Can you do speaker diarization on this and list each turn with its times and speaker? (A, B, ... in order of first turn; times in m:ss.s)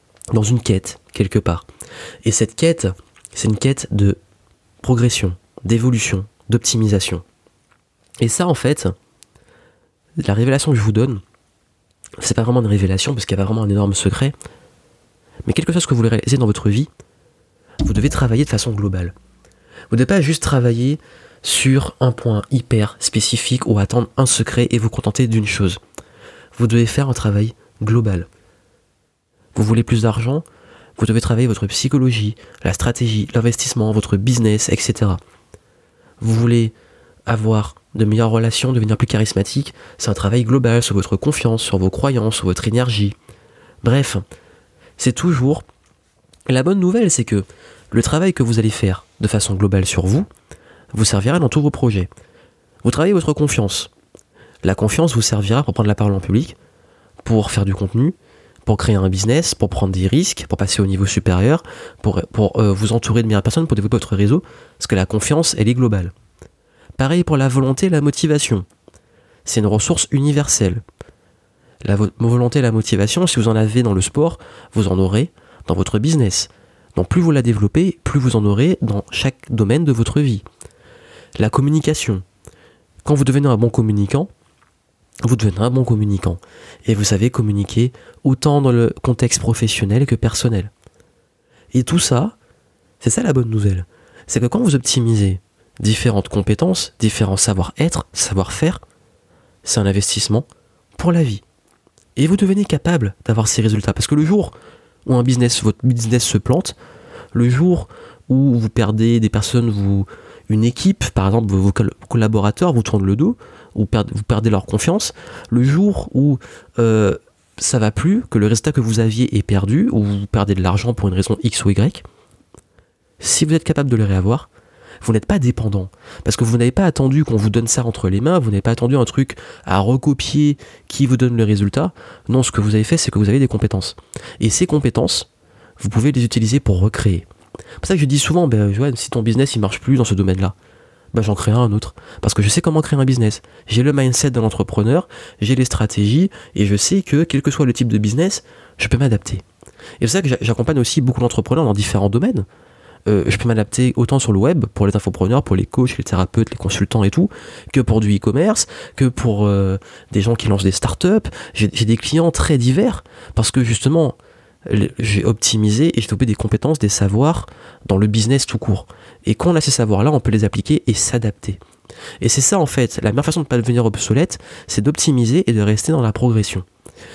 0:00.3-0:01.7 A
0:02.2-0:04.2 A
0:04.8-0:07.2 A
0:08.2-0:08.9 A
0:10.2-0:11.2 A
0:12.2-0:14.4 A
0:15.5-0:16.9 A
0:17.8-0:19.2 A
0:19.9-0:25.8 A
0:26.6-0:28.3 A
0:29.6-0:30.4 A
0:31.0-0:35.2 A
0:36.2-0:36.8 A
0:37.3-0:43.2 A
0:43.8-0:44.2 A
0:45.0-0:45.6 A
0:46.5-0:50.3 A
0:50.9-0:52.1 A
0:52.8-0:53.9 A
0:54.6-0:56.6 A
0:57.2-0:58.2 A
0:58.7-1:06.1 A
1:07.0-1:08.7 A
1:09.4-1:10.8 A
1:11.8-1:20.4 A
1:21.4-1:22.2 A
1:23.0-1:24.3 A
1:25.2-1:30.7 A
1:31.7-1:32.4 A
1:33.0-1:38.8 A
1:39.6-1:41.4 A
1:42.2-1:44.5 A
1:45.1-1:46.8 A
1:47.3-2:02.0 A
2:03.2-2:04.5 A
2:05.0-2:17.3 A
2:17.8-2:20.6 A
2:21.1-2:29.4 A
2:30.0-2:32.5 A
2:33.1-2:51.6 A
2:52.2-2:56.7 A